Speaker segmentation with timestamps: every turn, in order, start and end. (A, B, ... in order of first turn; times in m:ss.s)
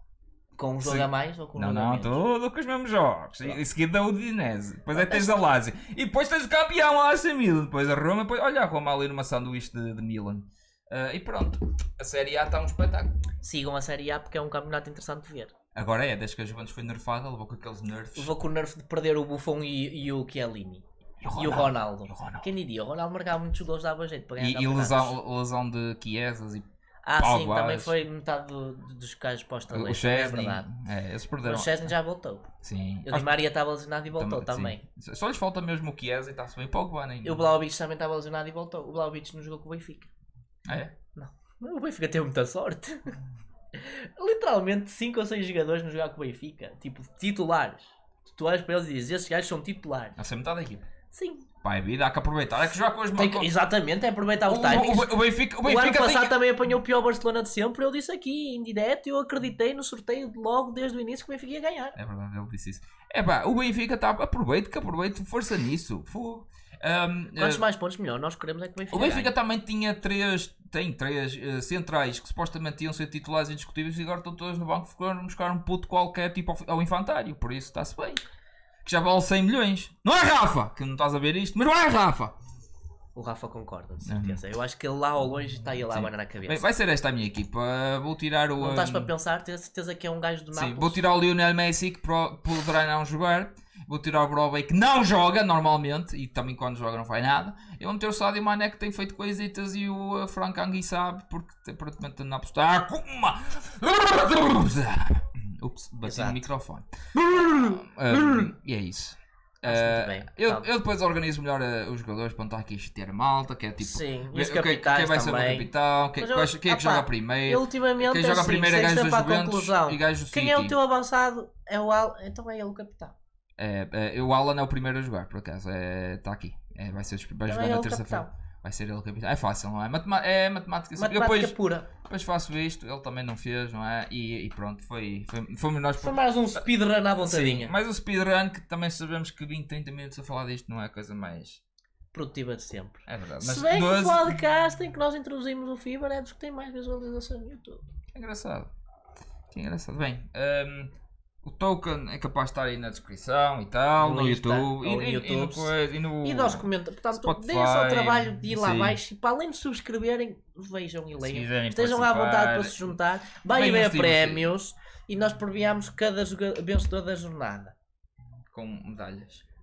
0:00.6-0:02.2 A
0:00.8-0:13.1 B
0:04.9-0:05.3 A
0:13.4-0:15.5 A
0:15.8-0:18.3 B
0:18.2-0:20.8 A
0:21.2-0:22.4 B
0:21.4-0:25.2 A
0:24.4-0:26.7 B
0:27.0-0:30.7 A
0:27.2-0:28.0 B
0:29.7-0:31.8 B
0:31.4-0:32.5 A
0:32.6-0:33.4 B
0:33.0-0:34.8 A
0:34.2-0:37.5 B
0:37.2-0:40.1 A
0:40.7-0:40.9 B
0:41.2-0:43.1 A
0:43.8-0:50.2 A
0:50.2-0:50.9 B
0:51.1-0:51.5 A
0:51.6-0:53.5 B
0:53.2-1:02.0 A
0:54.5-0:56.4 B
1:02.0-1:07.6 B
1:07.4-1:09.3 A
1:08.9-1:18.2 B
1:18.8-1:22.4 B
1:23.2-1:26.7 A
1:24.1-1:24.4 B
1:25.9-1:29.1 B
1:28.6-1:31.0 A
1:30.5-2:00.7 B
1:46.0-1:46.5 A
1:47.2-1:48.5 A
1:49.6-1:50.7 A
1:53.8-2:03.2 A
2:03.6-2:16.2 B
2:07.5-2:08.3 A
2:11.0-2:11.9 A
2:16.0-2:17.7 A
2:17.3-2:21.6 B
2:22.1-2:27.8 A
2:23.1-2:24.4 B
2:28.2-2:28.7 B
2:29.5-2:30.9 B
2:31.4-2:39.0 B
2:34.0-2:47.8 A
2:41.2-2:43.0 B
2:43.5-2:44.5 B
2:48.5-2:49.4 B